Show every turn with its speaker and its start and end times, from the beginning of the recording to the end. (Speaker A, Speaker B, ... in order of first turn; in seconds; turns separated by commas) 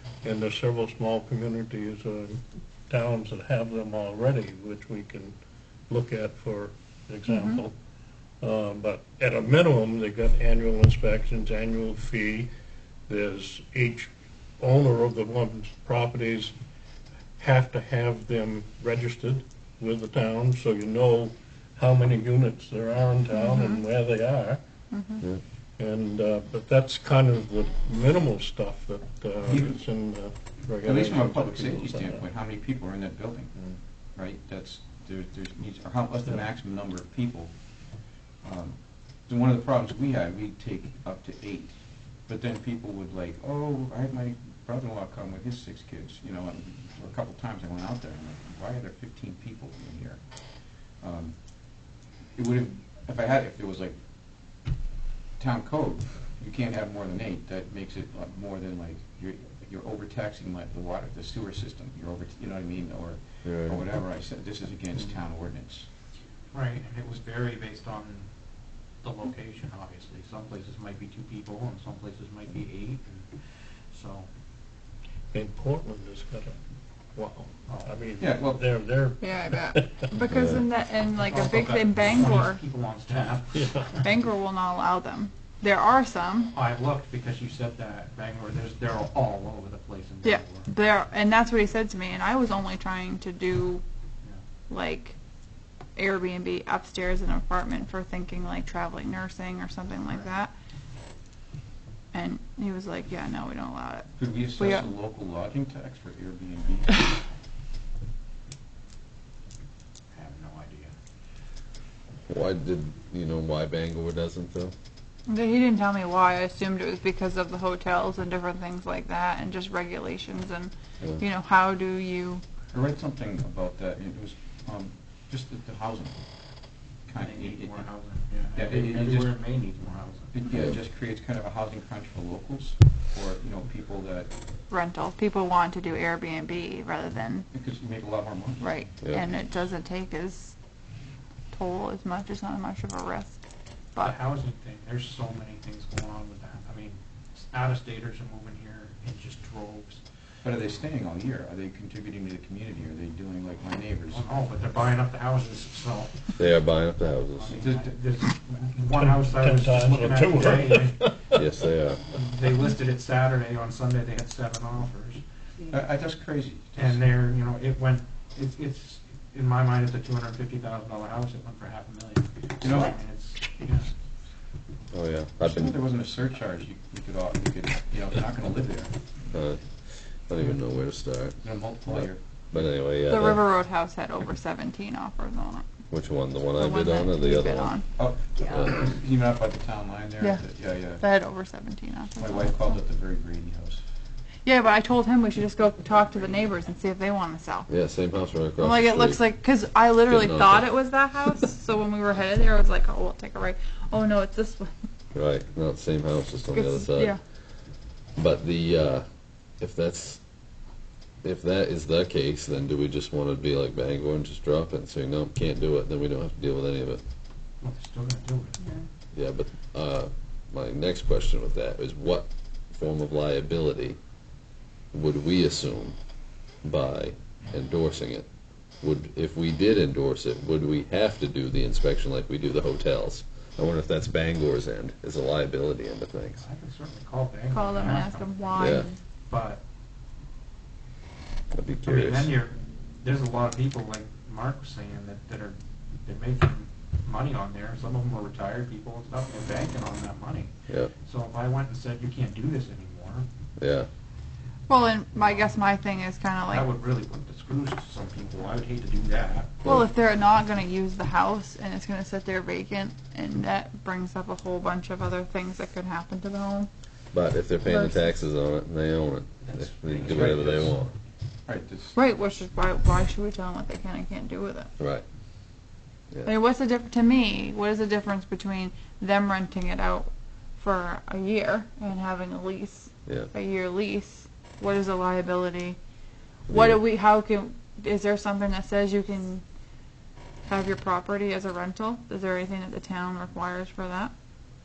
Speaker A: 0.2-5.4, Speaker A: 5.9-7.7, Speaker B: 7.3-7.6, Speaker A: 8.4-12.5, Speaker A: 13.1-16.5, Speaker A: 17.4-24.6, Speaker B: 23.3-23.8, Speaker B: 24.9-25.2, Speaker A: 25.8-32.3, Speaker C: 29.4-29.8, Speaker C: 30.8-33.5, Speaker C: 34.1-37.6, Speaker C: 38.4-50.2, Speaker C: 51.0-54.0, Speaker C: 55.4-65.9, Speaker D: 63.4-63.8, Speaker E: 66.5-68.3, Speaker E: 69.0-74.3, Speaker A: 75.3-76.6, Speaker A: 77.1-80.1, Speaker E: 77.7-78.0, Speaker C: 78.2-78.6, Speaker B: 79.2-82.6, Speaker D: 80.2-80.6, Speaker E: 81.2-84.1, Speaker A: 83.5-83.9, Speaker B: 84.0-86.5, Speaker E: 86.5-90.7, Speaker B: 90.2-93.8, Speaker B: 94.7-95.2, Speaker B: 96.0-100.5, Speaker E: 100.1-100.3, Speaker B: 102.1-104.9, Speaker C: 104.2-107.1, Speaker E: 110.1-110.9, Speaker D: 112.3-114.7, Speaker B: 115.3-122.4, Speaker C: 122.7-126.2, Speaker C: 127.0-127.9, Speaker E: 127.1-130.3, Speaker C: 128.5-129.4, Speaker C: 130.3-134.3, Speaker B: 134.7-137.5, Speaker C: 137.5-139.0, Speaker B: 138.6-140.6, Speaker D: 139.0-139.3, Speaker B: 141.5-144.2, Speaker E: 144.0-150.0, Speaker C: 150.4-154.2, Speaker E: 154.1-156.5, Speaker D: 156.4-157.7, Speaker E: 157.4-161.3, Speaker C: 157.6-157.9, Speaker A: 159.0-161.3, Speaker D: 161.3-162.1, Speaker E: 162.1-165.2, Speaker C: 165.7-167.0, Speaker E: 166.8-173.9, Speaker C: 172.6-173.0, Speaker D: 174.9-175.8, Speaker C: 175.4-178.9, Speaker D: 179.3-183.4, Speaker C: 181.4-182.2, Speaker B: 183.1-185.7, Speaker D: 185.9-187.8, Speaker B: 186.6-187.9, Speaker C: 188.0-191.0, Speaker D: 188.4-188.8, Speaker B: 190.2-192.7, Speaker C: 192.2-193.8, Speaker B: 194.4-197.7, Speaker D: 197.7-199.3, Speaker B: 198.6-204.9, Speaker D: 200.1-200.7, Speaker D: 205.2-209.1, Speaker B: 206.5-207.2, Speaker D: 209.6-210.2, Speaker D: 211.2-217.0, Speaker E: 217.6-218.6, Speaker D: 219.1-224.0, Speaker D: 224.9-226.0, Speaker D: 226.6-228.3, Speaker D: 228.8-236.4, Speaker E: 236.4-239.6, Speaker B: 237.5-239.0, Speaker D: 238.6-238.9, Speaker D: 241.5-242.3, Speaker E: 241.8-250.5, Speaker E: 251.0-253.3, Speaker D: 253.6-253.9, Speaker B: 254.7-256.7, Speaker E: 255.2-255.6, Speaker E: 256.4-259.6, Speaker D: 259.6-259.9, Speaker B: 259.6-266.7, Speaker D: 267.1-270.9, Speaker B: 267.6-268.1, Speaker E: 269.5-270.6, Speaker C: 270.0-270.6, Speaker C: 271.4-272.0, Speaker B: 271.9-274.7, Speaker D: 274.8-275.0, Speaker B: 276.2-285.8, Speaker B: 286.5-289.4, Speaker D: 286.5-286.8, Speaker B: 290.5-294.1